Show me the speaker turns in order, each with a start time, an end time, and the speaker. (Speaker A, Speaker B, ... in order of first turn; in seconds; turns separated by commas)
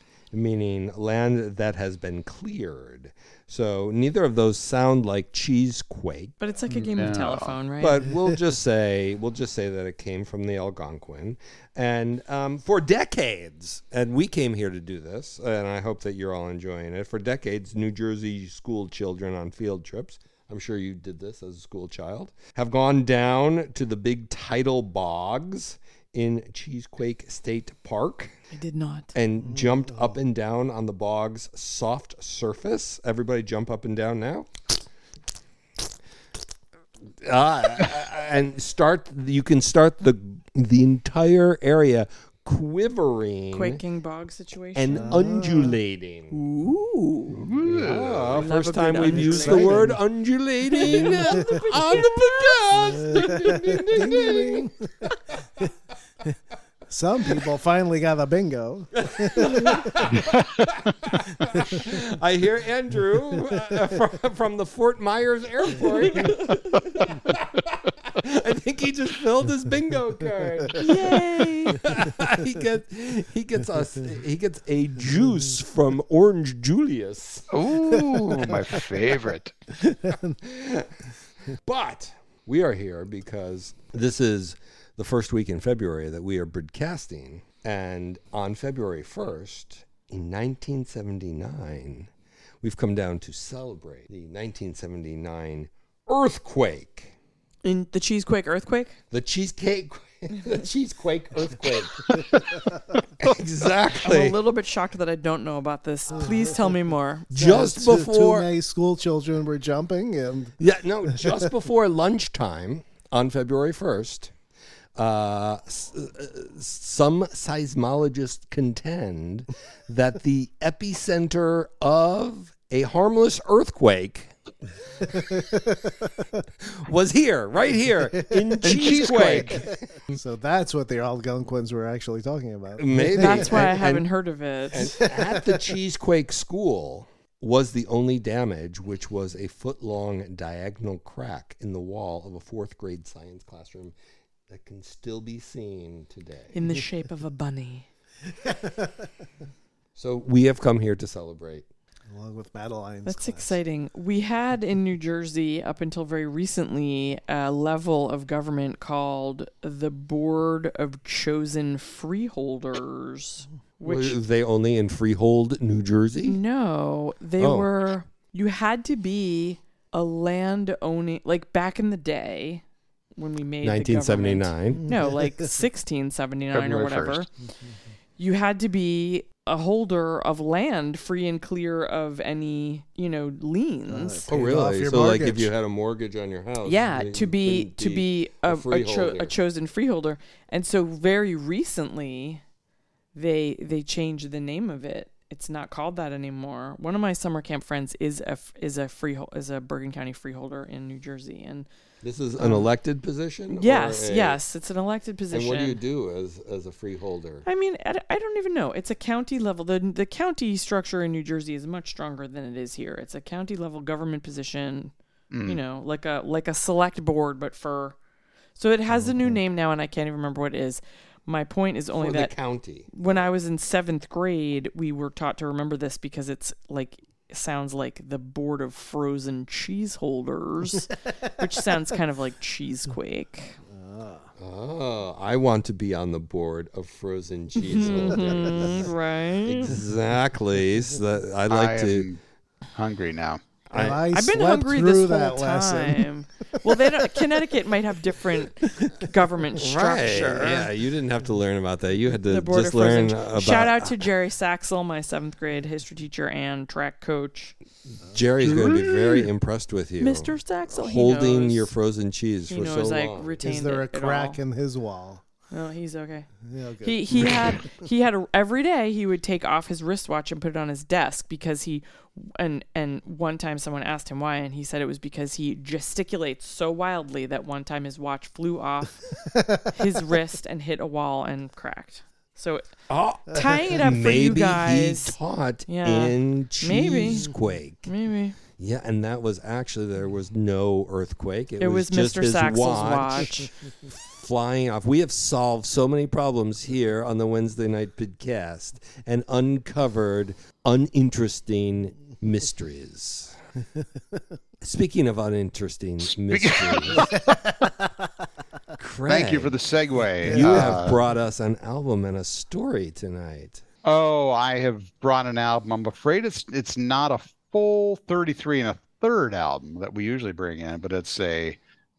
Speaker A: 0.3-6.3, Speaker B: 6.4-8.0, Speaker C: 6.9-7.5, Speaker A: 7.8-28.3, Speaker B: 28.5-29.1, Speaker A: 29.1-34.5, Speaker A: 37.2-43.8, Speaker B: 43.5-45.2, Speaker A: 44.7-46.4, Speaker D: 44.9-45.8, Speaker B: 46.3-47.5, Speaker C: 47.3-48.4, Speaker A: 47.6-55.1, Speaker B: 48.3-49.9, Speaker D: 49.1-50.0, Speaker B: 50.7-53.3, Speaker D: 50.9-51.4, Speaker D: 53.0-54.9, Speaker D: 56.9-60.2, Speaker A: 59.0-77.5, Speaker D: 61.5-61.9, Speaker B: 66.0-66.5, Speaker B: 70.8-71.9, Speaker C: 77.5-79.5, Speaker D: 79.8-80.3, Speaker A: 80.4-80.9, Speaker A: 81.7-92.1, Speaker A: 92.6-97.1, Speaker B: 97.6-99.0, Speaker A: 99.1-102.3, Speaker A: 103.2-104.4, Speaker B: 104.0-107.3, Speaker D: 107.3-110.5, Speaker A: 107.3-108.5, Speaker A: 110.6-114.3, Speaker A: 115.0-124.3, Speaker D: 125.1-125.9, Speaker A: 126.7-129.8, Speaker C: 128.6-129.6, Speaker D: 130.1-133.7, Speaker A: 132.8-134.1, Speaker B: 133.1-135.1, Speaker A: 134.7-143.9, Speaker D: 135.0-135.6, Speaker A: 144.5-146.5, Speaker B: 146.5-147.8, Speaker D: 148.4-149.1, Speaker A: 149.9-151.6, Speaker D: 152.1-153.6, Speaker B: 153.1-164.2, Speaker A: 163.8-166.4, Speaker B: 166.2-172.6, Speaker A: 167.4-167.7, Speaker B: 173.2-177.3, Speaker A: 173.6-174.9, Speaker C: 176.5-177.2, Speaker B: 178.2-184.2, Speaker D: 183.9-185.5, Speaker A: 184.3-189.3, Speaker B: 186.6-192.4, Speaker B: 193.1-201.7, Speaker A: 202.0-204.4, Speaker B: 202.4-202.7, Speaker B: 203.5-205.8, Speaker A: 205.3-207.4, Speaker B: 207.4-214.9, Speaker C: 215.3-215.6, Speaker B: 215.4-217.9, Speaker B: 218.6-222.3, Speaker A: 221.9-223.2, Speaker B: 222.8-233.6, Speaker D: 233.7-234.3, Speaker A: 234.4-238.9, Speaker B: 237.6-239.8, Speaker A: 239.4-242.1, Speaker C: 241.5-242.2, Speaker C: 242.7-243.4, Speaker A: 243.7-244.1, Speaker D: 243.7-246.1, Speaker B: 244.1-250.7, Speaker D: 246.7-247.1, Speaker A: 249.6-253.9, Speaker B: 252.3-257.6, Speaker A: 258.1-263.4, Speaker B: 258.4-259.1, Speaker B: 260.0-261.7, Speaker B: 262.5-264.4, Speaker D: 263.4-265.2, Speaker B: 265.5-266.3, Speaker D: 266.4-267.5, Speaker B: 266.8-282.7, Speaker D: 279.3-279.6, Speaker A: 282.9-287.9, Speaker B: 283.3-285.1, Speaker B: 285.7-287.3, Speaker B: 287.9-288.4, Speaker A: 288.6-303.4, Speaker B: 291.6-293.5, Speaker A: 304.6-307.1, Speaker C: 306.0-307.1, Speaker A: 308.8-309.5, Speaker C: 309.1-311.0, Speaker A: 310.2-313.6, Speaker D: 310.3-310.8, Speaker C: 313.8-321.6